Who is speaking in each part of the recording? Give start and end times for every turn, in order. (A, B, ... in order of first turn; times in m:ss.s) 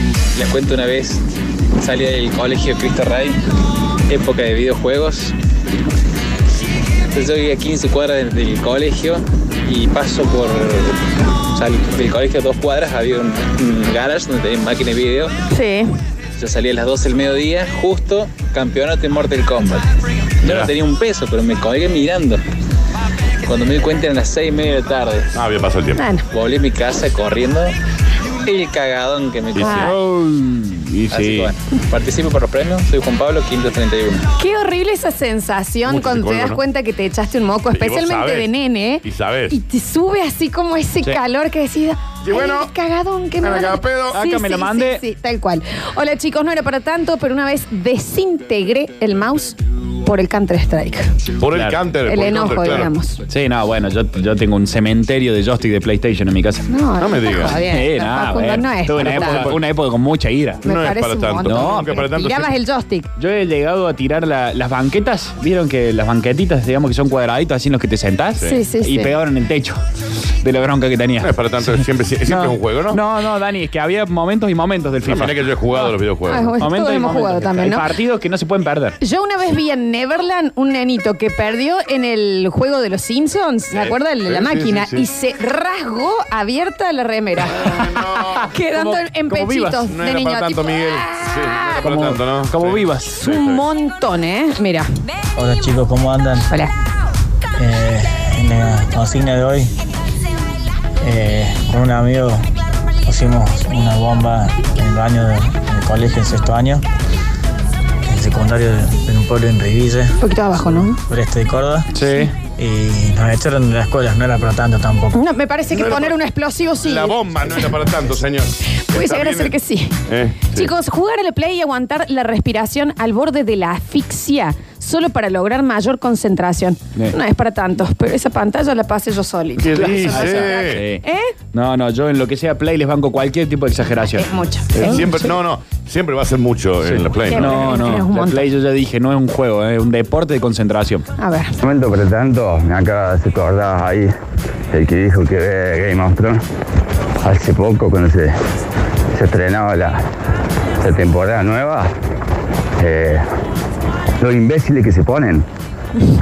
0:00.4-0:01.2 A
0:01.8-0:03.4 A
0:04.1-0:05.3 A
0:07.1-0:11.0 A
0:11.5-0:15.3 A
0:15.5-0:15.9 B
0:16.4-0:19.8 A
0:20.4-0:22.4 A
0:23.4-0:25.3 A
0:25.3-0:26.0 C
0:26.0-0:26.2 B
0:26.3-0:27.7 A
0:28.4-0:30.0 A
0:29.6-0:29.9 B
0:29.7-0:31.5 D
0:31.1-0:34.2 A
0:34.3-0:51.1 B
0:35.8-0:36.6 C
0:37.7-0:38.5 C
0:39.0-0:39.6 C
0:42.2-0:42.7 C
0:43.4-0:44.1 C
0:44.1-0:45.0 D
0:51.4-0:52.9 C
0:51.5-0:51.8 D
0:52.0-0:53.2 B
0:53.3-0:56.6 D
0:56.7-0:59.6 B
0:57.0-0:57.6 C
0:57.5-1:00.6 D
0:59.0-0:59.6 C
1:00.6-1:03.1 B
1:00.6-1:02.4 C
1:01.4-1:02.0 D
1:03.2-1:09.8 D
1:08.4-1:09.1 B
1:10.4-1:16.0 D
1:11.2-1:13.0 C
1:15.0-1:16.4 C
1:16.2-1:17.9 B
1:16.6-1:19.0 D
1:19.0-1:27.8 B
1:23.7-1:25.0 C
1:27.8-1:28.4 C
1:28.4-1:31.8 B
1:28.6-1:29.9 D
1:29.9-1:33.6 C
1:31.8-1:33.2 D
1:33.2-1:34.9 B
1:35.4-1:36.5 E
1:37.6-1:39.7 E
1:41.0-1:42.4 E
1:43.0-1:46.8 E
1:48.0-1:50.1 E
1:50.2-1:51.0 B
1:51.1-1:51.9 E
1:51.9-1:52.3 D
1:52.6-1:55.2 E
1:55.1-1:57.7 B
1:55.7-1:56.2 C
1:56.8-1:59.5 C
1:58.9-2:00.0 B
2:00.1-2:00.7 C
2:00.5-2:11.3 B
2:09.7-2:10.8 C
2:09.7-2:11.0 D
2:11.5-2:14.3 D
2:14.1-2:15.3 B
2:14.8-2:17.6 C
2:14.8-2:15.1 D
2:16.8-2:21.0 D
2:17.2-2:18.4 B
2:21.2-2:21.6 B
2:21.6-2:24.1 F
2:24.7-2:26.4 F
2:27.2-2:28.3 F
2:29.1-2:30.0 F
2:30.8-2:31.9 F
2:32.8-2:33.2 F
2:34.2-2:35.4 F